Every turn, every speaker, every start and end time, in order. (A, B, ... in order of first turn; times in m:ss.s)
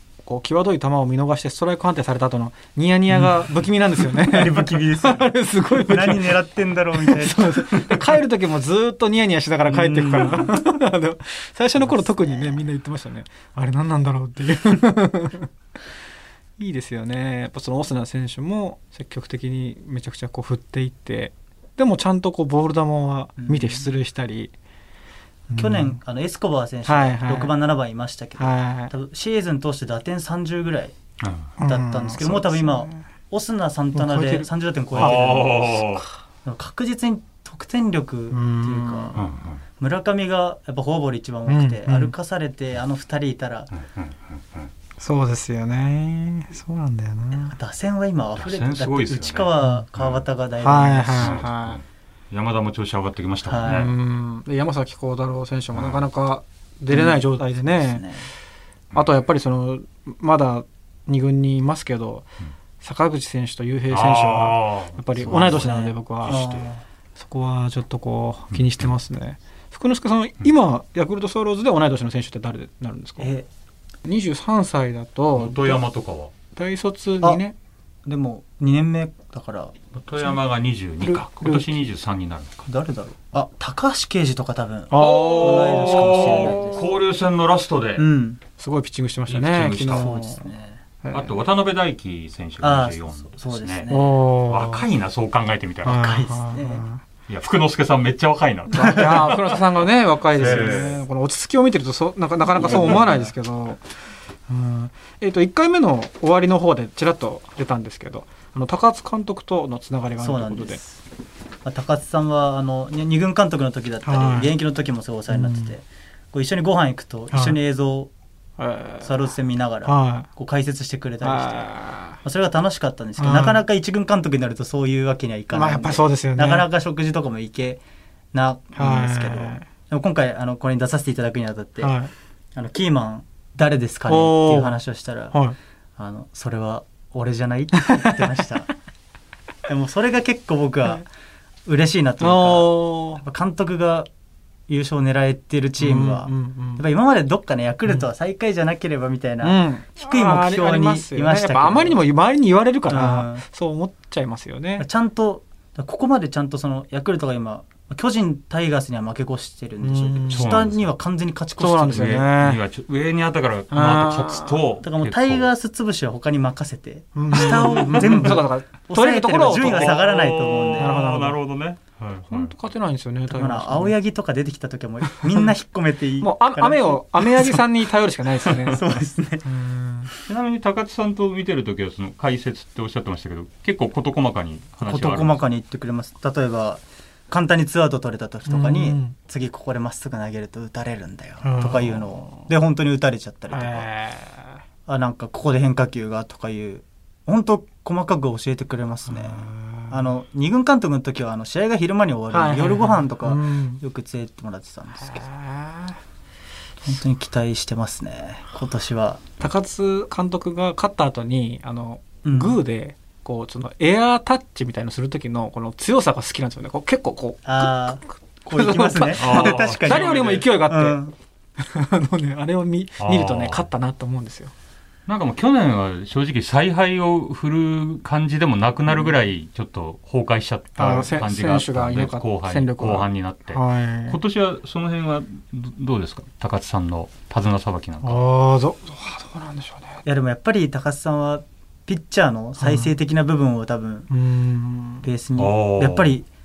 0:00.2-0:06.4 A
0:03.1-0:03.4 B
0:04.0-0:08.2 B
0:06.9-0:15.5 A
0:09.7-0:10.5 B
0:11.8-0:12.6 B
0:16.6-0:24.5 A
0:23.4-0:23.9 B
0:25.5-0:26.0 A
0:25.5-0:30.9 B
0:26.8-0:27.6 A
0:28.4-0:28.9 A
0:31.2-0:31.5 C
0:31.6-0:33.1 A
0:31.6-0:35.5 B
0:33.9-0:36.1 A
0:34.9-0:36.0 C
0:36.4-0:39.2 B
0:38.3-0:39.2 A
0:39.1-0:39.6 C
0:39.8-0:43.7 B
0:41.5-0:42.1 A
0:43.7-0:44.7 C
0:45.0-0:47.5 A
0:47.3-0:51.4 B
0:48.4-0:50.3 C
0:50.6-0:51.8 A
0:51.1-0:53.9 C
0:53.4-0:53.9 B
0:53.6-0:58.0 A
0:55.7-0:56.1 C
0:56.9-0:58.3 B
0:58.9-1:02.3 A
1:02.8-1:06.5 A
1:03.9-1:06.7 C
1:05.2-1:06.8 B
1:07.2-1:13.3 A
1:08.5-1:08.8 C
1:13.2-1:13.5 B
1:14.0-1:15.8 A
1:15.4-1:16.3 C
1:16.5-1:17.6 A
1:18.0-1:19.7 B
1:19.9-1:22.6 C
1:21.0-1:21.8 A
1:22.6-1:26.9 B
1:24.9-1:26.9 A
1:25.0-1:28.0 C
1:28.0-1:28.4 B
1:28.6-1:30.4 A
1:29.3-1:30.2 C
1:30.0-1:30.8 B
1:31.0-1:31.3 A
1:31.1-1:33.9 C
1:32.6-1:34.1 B
1:33.9-1:34.8 A
1:34.4-1:36.0 C
1:35.8-1:37.0 A
1:35.9-1:36.8 B
1:37.3-1:39.5 C
1:38.7-1:43.8 A
1:38.9-1:39.3 B
1:40.3-1:41.0 C
1:42.5-1:43.3 B
1:44.5-1:50.8 A
1:50.2-1:51.0 B
1:51.6-1:58.1 B
1:54.0-1:54.5 A
1:55.3-1:55.7 A
1:57.3-1:57.6 A
1:58.6-1:59.3 A
1:59.0-2:01.7 B
1:59.8-2:00.3 A
2:01.2-2:02.2 A
2:02.2-2:07.8 B
2:03.2-2:03.6 A
2:05.5-2:06.7 A
2:08.3-2:12.0 B
2:08.7-2:09.6 A
2:11.8-2:12.1 A
2:12.6-2:15.4 B
2:14.1-2:14.8 A
2:15.3-2:15.6 A
2:16.0-2:18.7 B
2:17.8-2:18.0 A
2:19.7-2:21.0 B
2:21.6-2:24.1 B
2:22.2-2:23.2 A
2:24.7-2:32.0 B
2:25.8-2:26.8 A
2:29.4-2:34.8 A
2:32.9-2:33.4 B
2:34.8-2:42.2 B
2:39.8-2:40.5 A
2:40.3-2:40.9 C
2:41.6-2:42.6 A
2:41.9-2:45.5 C
2:43.7-2:44.7 A
2:44.8-2:51.0 B
2:47.1-2:50.1 A
2:47.5-2:48.2 C
2:49.6-2:52.5 C
2:50.8-2:51.4 A
2:52.3-2:53.9 A
2:53.3-2:57.6 B
2:55.0-2:55.5 A
2:56.2-2:58.9 A
2:58.5-2:59.4 B
2:59.4-3:00.1 A
3:00.3-3:05.4 C
3:04.9-3:13.9 B
3:08.5-3:09.1 A
3:11.4-3:12.5 A
3:13.5-3:14.6 A
3:14.9-3:25.3 B
3:19.1-3:20.1 A
3:22.3-3:23.8 A
3:25.0-3:26.0 A
3:26.8-3:29.2 B
3:29.4-3:41.0 A
3:32.2-3:32.6 B
3:37.4-3:41.1 B
3:39.1-3:40.5 C
3:41.6-3:44.5 A
3:43.0-3:43.7 C
3:45.1-3:58.2 C
3:50.8-3:54.2 A
3:58.0-4:00.0 A
4:00.0-4:04.1 B
4:02.6-4:02.9 A
4:04.1-4:05.1 A
4:05.0-4:06.2 B
4:05.4-4:06.2 C